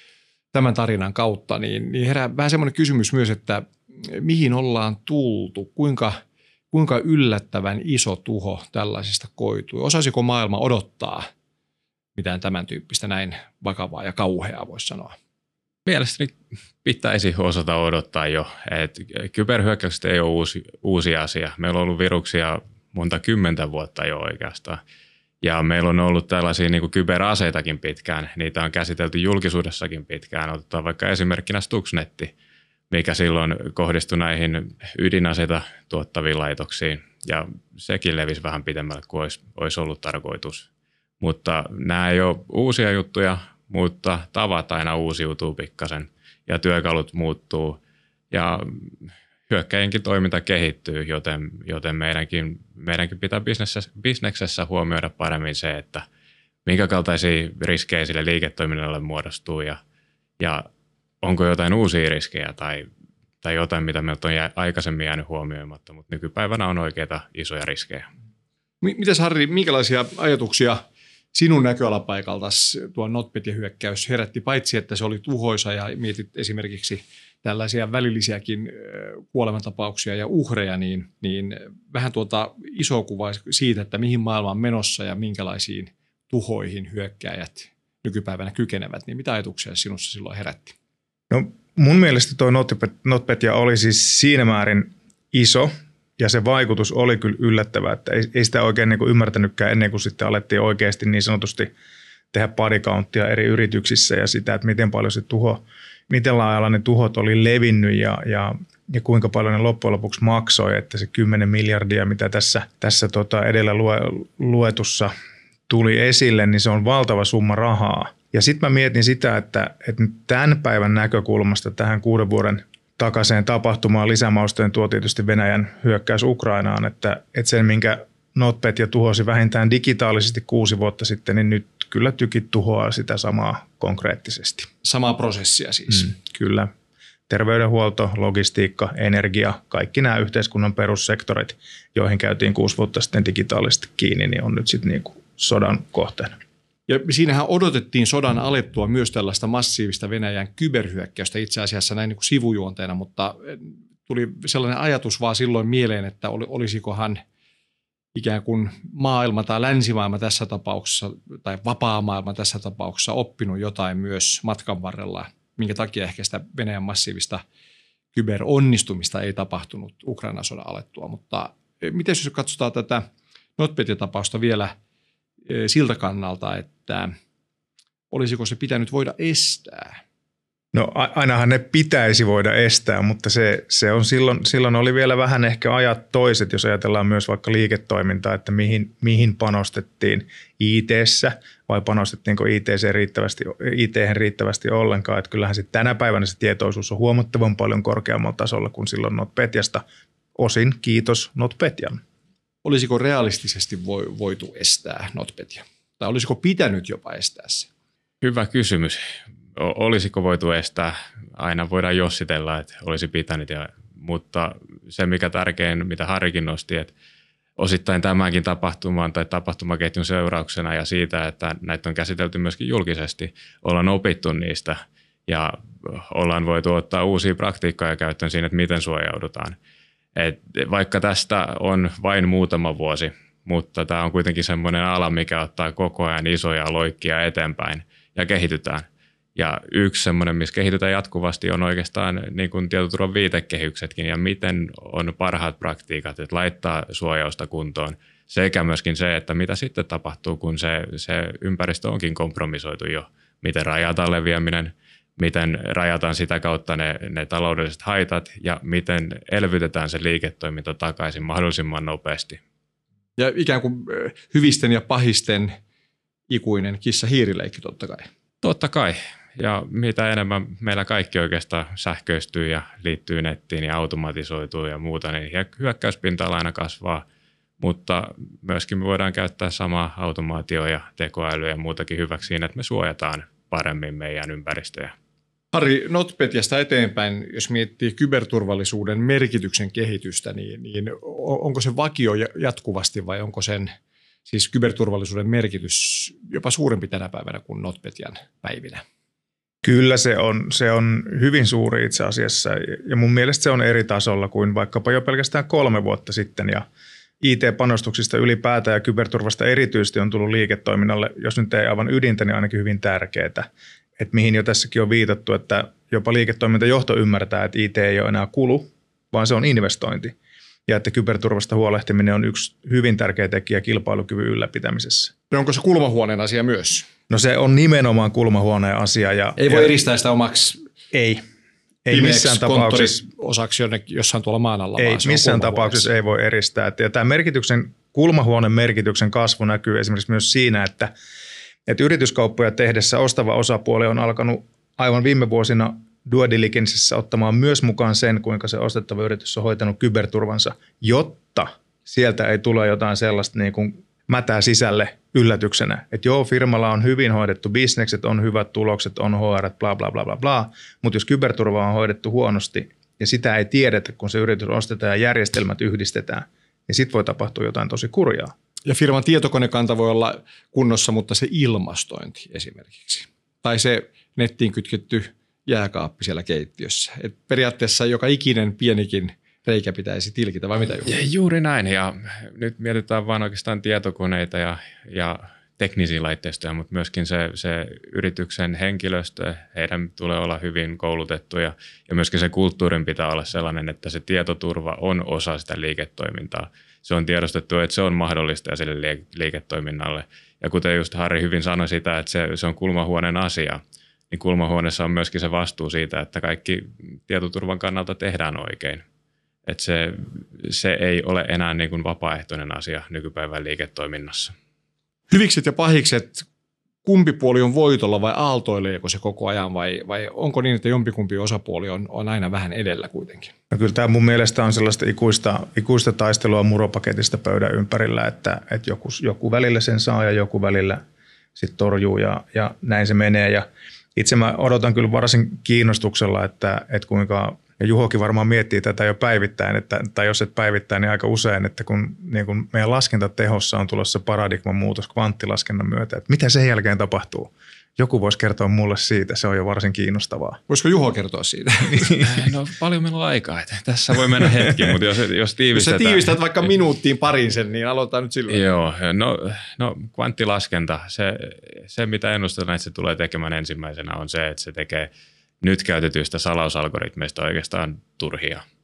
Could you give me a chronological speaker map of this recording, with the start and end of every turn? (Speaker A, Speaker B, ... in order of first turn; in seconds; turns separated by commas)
Speaker A: 0.5-11.3, Speaker A: 12.2-15.1, Speaker B: 15.8-24.8, Speaker B: 25.4-32.3, Speaker B: 32.9-40.7, Speaker B: 41.2-47.8, Speaker B: 48.3-56.0, Speaker B: 56.6-59.8, Speaker B: 60.4-60.6, Speaker B: 61.2-62.9, Speaker B: 63.4-68.1, Speaker A: 68.8-90.7, Speaker C: 91.3-101.7, Speaker C: 102.3-115.1, Speaker C: 115.7-134.7, Speaker A: 134.8-136.1, Speaker C: 135.9-136.7, Speaker C: 137.3-146.3, Speaker A: 146.9-157.2, Speaker A: 158.1-167.4, Speaker A: 168.1-173.1, Speaker A: 173.6-174.7, Speaker A: 175.5-177.1, Speaker A: 178.1-180.0, Speaker C: 180.7-199.8, Speaker C: 200.3-202.0, Speaker A: 202.6-207.7, Speaker B: 208.2-209.0, Speaker B: 209.6-216.9, Speaker B: 217.6-229.6, Speaker B: 230.2-262.4, Speaker A: 263.2-265.5, Speaker A: 266.3-268.1, Speaker B: 268.4-277.0, Speaker B: 277.6-284.9, Speaker A: 285.5-293.7, Speaker A: 294.3-298.8, Speaker C: 299.6-306.6, Speaker C: 307.2-320.1, Speaker C: 320.7-325.1, Speaker A: 325.3-326.9, Speaker C: 327.1-329.7, Speaker A: 329.4-330.6, Speaker C: 330.9-331.2, Speaker C: 331.8-333.0, Speaker A: 331.9-335.9, Speaker C: 334.8-340.9, Speaker C: 341.7-368.3, Speaker A: 368.6-380.9, Speaker B: 380.8-408.8, Speaker B: 409.4-414.3, Speaker A: 415.1-416.2, Speaker A: 416.8-423.3, Speaker C: 423.5-430.8, Speaker C: 431.4-450.4, Speaker A: 450.5-452.0, Speaker B: 452.0-456.2, Speaker A: 455.5-458.4, Speaker B: 458.3-464.9, Speaker B: 465.4-468.4